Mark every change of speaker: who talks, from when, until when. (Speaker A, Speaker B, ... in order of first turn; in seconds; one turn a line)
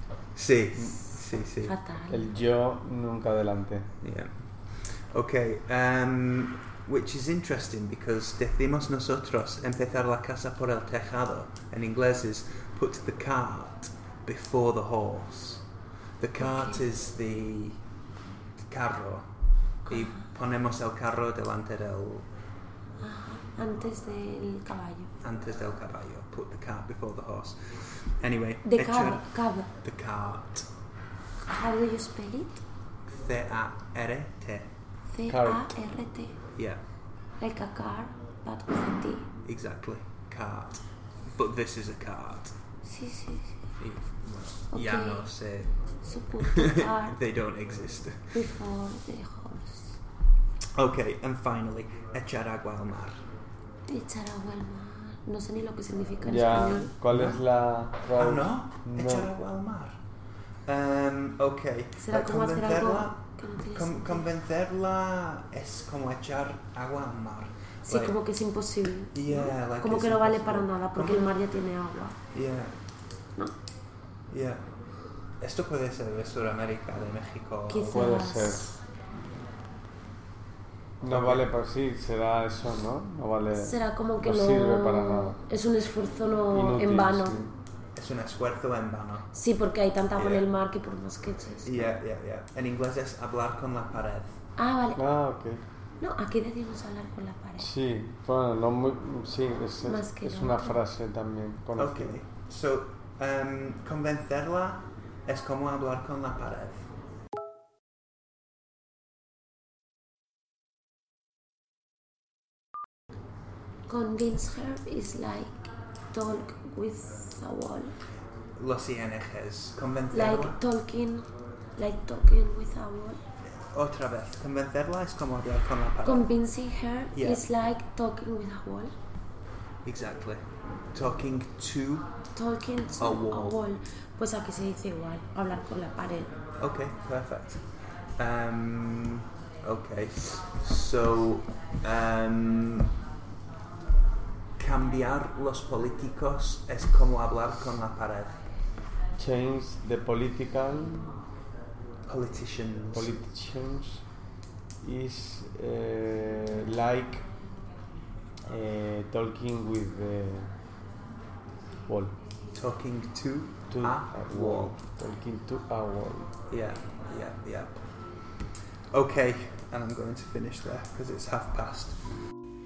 Speaker A: 0.3-1.8
Speaker B: 1.6-2.3
Speaker C: 2.1-3.9
Speaker A: 4.0-15.7
Speaker A: 16.2-17.8
Speaker B: 16.4-16.8
Speaker A: 18.7-19.3
Speaker B: 19.9-20.3
Speaker A: 19.9-22.3
Speaker B: 23.0-25.1
Speaker A: 25.2-30.7
Speaker B: 28.6-29.7
Speaker B: 31.4-32.6
Speaker A: 33.1-34.7
Speaker B: 35.1-36.4
Speaker C: 35.3-35.7
Speaker A: 36.5-36.8
Speaker B: 37.4-39.3
Speaker A: 39.5-40.8
Speaker A: 41.3-42.5
Speaker B: 42.9-43.7
Speaker A: 43.8-45.7
Speaker B: 44.7-45.3
Speaker B: 46.0-47.2
Speaker A: 46.3-48.4
Speaker B: 48.3-50.0
Speaker A: 50.8-53.2
Speaker B: 53.9-56.9
Speaker C: 56.2-59.3
Speaker A: 57.0-57.4
Speaker A: 58.2-60.0
Speaker A: 60.7-68.2
Speaker B: 62.0-64.3
Speaker B: 67.9-72.2
Speaker A: 69.1-71.3
Speaker A: 72.3-72.8
Speaker A: 74.3-74.6
Speaker A: 75.4-78.1
Speaker B: 77.7-78.8
Speaker C: 77.9-78.8
Speaker C: 81.0-85.4
Speaker A: 81.1-81.5
Speaker B: 83.5-87.4
Speaker C: 86.5-87.5
Speaker A: 88.0-89.3
Speaker B: 89.3-91.9
Speaker A: 90.2-90.5
Speaker A: 91.6-94.4
Speaker B: 94.6-95.0
Speaker C: 95.0-95.6
Speaker B: 96.0-97.7
Speaker C: 97.6-102.2
Speaker B: 99.8-100.8
Speaker A: 101.8-106.9
Speaker B: 113.9-118.0
Speaker A: 118.6-120.6
Speaker B: 120.1-123.2
Speaker A: 123.6-126.3
Speaker B: 126.0-128.9
Speaker A: 127.2-127.4
Speaker A: 129.8-132.1
Speaker B: 132.3-136.3
Speaker A: 133.0-133.6
Speaker A: 136.6-137.6
Speaker A: 138.2-142.9
Speaker A: 144.6-148.4
Speaker C: 149.2-151.1
Speaker A: 152.1-153.2
Speaker C: 152.9-154.1
Speaker C: 154.8-157.3
Speaker C: 158.5-160.5
Speaker C: 161.9-162.2
Speaker A: 162.5-164.8
Speaker C: 163.7-166.3
Speaker A: 166.5-167.8
Speaker A: 168.9-172.0